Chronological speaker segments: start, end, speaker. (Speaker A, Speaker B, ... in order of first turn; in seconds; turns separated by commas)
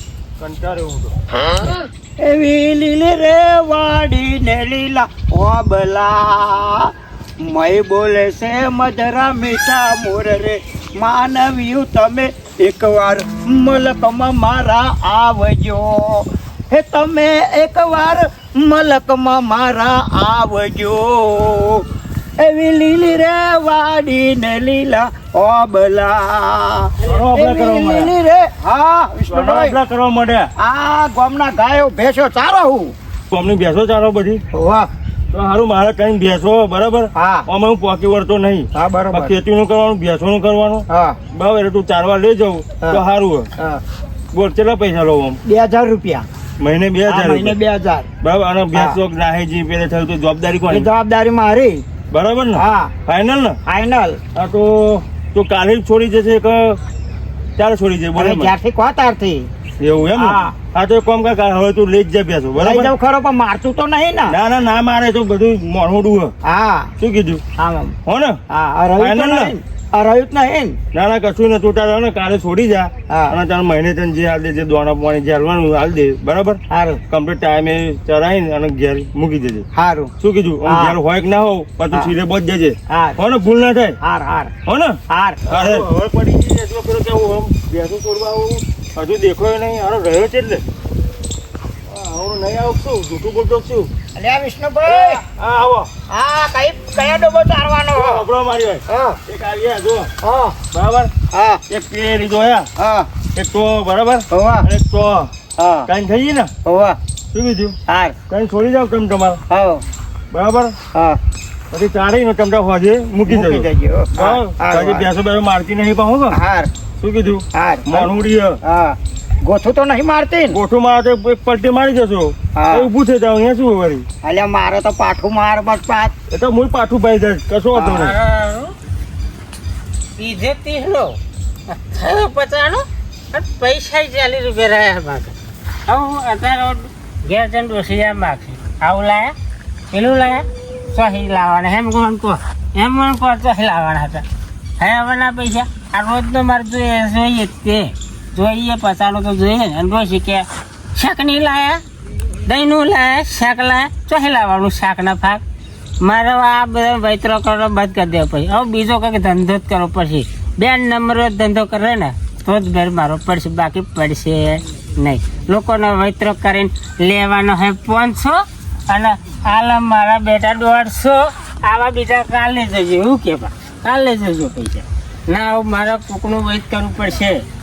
Speaker A: 0.4-1.1, Speaker B: 2.2-21.9, Speaker B: 22.4-29.8, Speaker A: 27.1-28.1, Speaker A: 29.3-30.5, Speaker B: 30.6-33.0, Speaker A: 33.3-34.4, Speaker B: 34.5-34.9, Speaker A: 35.3-43.5, Speaker B: 37.1-37.5, Speaker B: 38.7-39.4, Speaker B: 40.9-41.2, Speaker A: 44.3-45.4, Speaker B: 45.5-46.3, Speaker A: 46.6-47.6, Speaker B: 47.1-48.1, Speaker A: 48.2-50.9, Speaker B: 48.7-49.0, Speaker B: 50.7-51.8, Speaker A: 52.1-53.6, Speaker B: 52.5-52.9, Speaker B: 53.6-54.2, Speaker A: 54.4-56.8, Speaker A: 57.6-58.5, Speaker B: 58.1-59.5, Speaker A: 59.8-62.9, Speaker B: 60.1-60.5, Speaker B: 62.5-64.4, Speaker A: 64.3-66.3, Speaker B: 66.4-66.9, Speaker A: 67.0-67.4, Speaker B: 67.6-68.0, Speaker A: 68.1-68.4, Speaker B: 68.5-70.8, Speaker A: 69.0-69.6, Speaker A: 70.9-79.7, Speaker B: 73.1-73.4, Speaker B: 76.7-77.0, Speaker B: 79.7-80.1, Speaker A: 80.2-84.0, Speaker B: 80.6-81.0, Speaker B: 82.9-83.2, Speaker B: 84.0-84.5, Speaker A: 84.7-90.6, Speaker B: 85.1-85.8, Speaker A: 91.9-93.9, Speaker B: 94.2-95.2, Speaker A: 94.8-95.9, Speaker B: 96.1-98.3, Speaker A: 97.9-100.1, Speaker B: 98.9-99.2, Speaker B: 100.2-100.6, Speaker A: 100.7-101.1, Speaker B: 101.3-101.6, Speaker A: 101.7-102.7, Speaker B: 102.8-103.1, Speaker A: 103.3-105.3, Speaker B: 104.3-104.7, Speaker B: 105.6-105.9, Speaker A: 105.9-106.5, Speaker B: 106.6-107.0, Speaker A: 107.3-107.8, Speaker B: 107.9-108.2, Speaker A: 108.3-109.4, Speaker B: 109.5-109.8, Speaker A: 110.3-110.7, Speaker B: 110.9-111.2, Speaker A: 111.7-116.4, Speaker B: 113.3-115.1, Speaker B: 116.3-116.7, Speaker A: 117.0-118.6, Speaker B: 117.5-118.1, Speaker B: 118.6-120.6, Speaker A: 120.5-124.1, Speaker B: 122.5-122.9, Speaker B: 124.2-126.1, Speaker A: 126.3-128.2, Speaker B: 127.7-128.0, Speaker C: 127.8-128.7, Speaker C: 130.2-131.2, Speaker C: 131.7-135.3, Speaker C: 135.9-139.3, Speaker C: 139.9-144.2, Speaker C: 144.8-151.8, Speaker C: 152.4-155.4, Speaker C: 156.0-177.4